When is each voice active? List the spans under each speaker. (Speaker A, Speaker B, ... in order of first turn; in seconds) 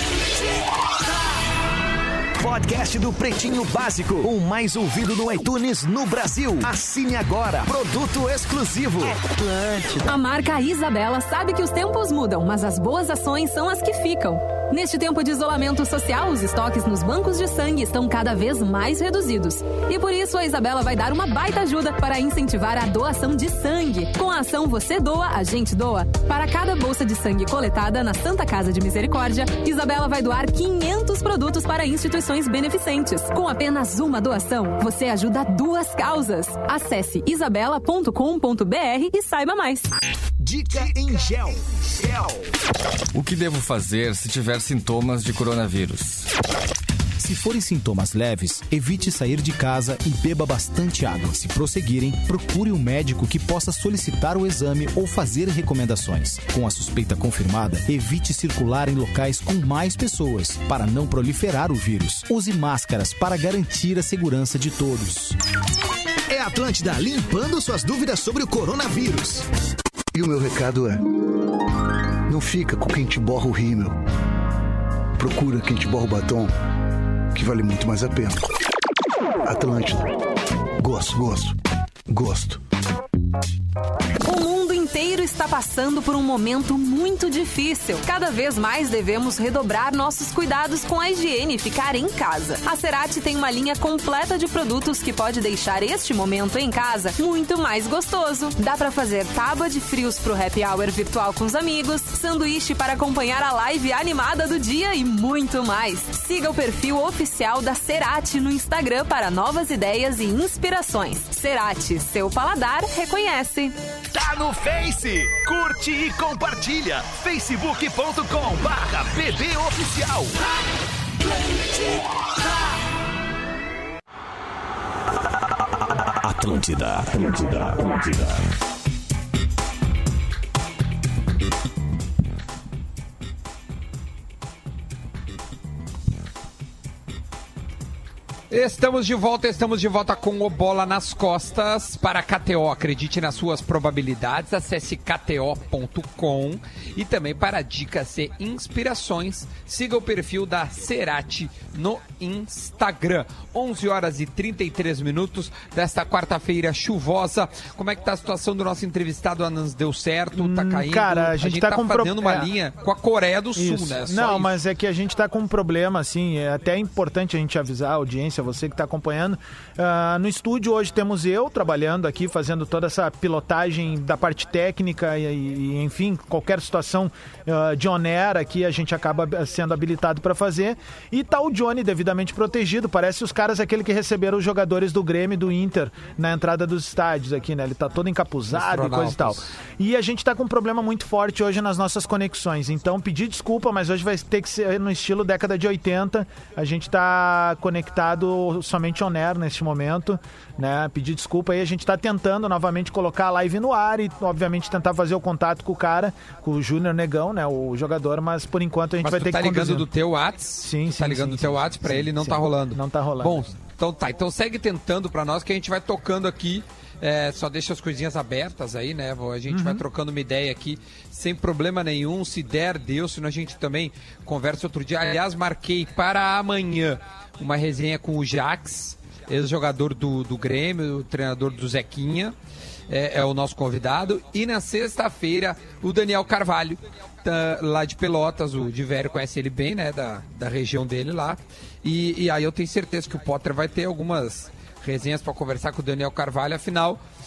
Speaker A: 2.4-10.0, 40.4-42.5, 66.3-69.4, 114.1-120.3
Speaker B: 10.0-39.9, 84.2-113.8
Speaker C: 43.2-46.2
Speaker D: 47.2-65.4
Speaker E: 70.1-71.0, 72.3-74.0, 75.2-76.5, 77.3-78.4, 79.5-80.1, 80.8-81.5, 82.1-82.6
Speaker F: 125.9-128.4
Speaker G: 138.5-164.6, 188.5-189.4, 209.0-232.3, 232.9-247.0
Speaker H: 160.3-162.5, 163.6-209.9, 210.6-213.5, 219.5-219.8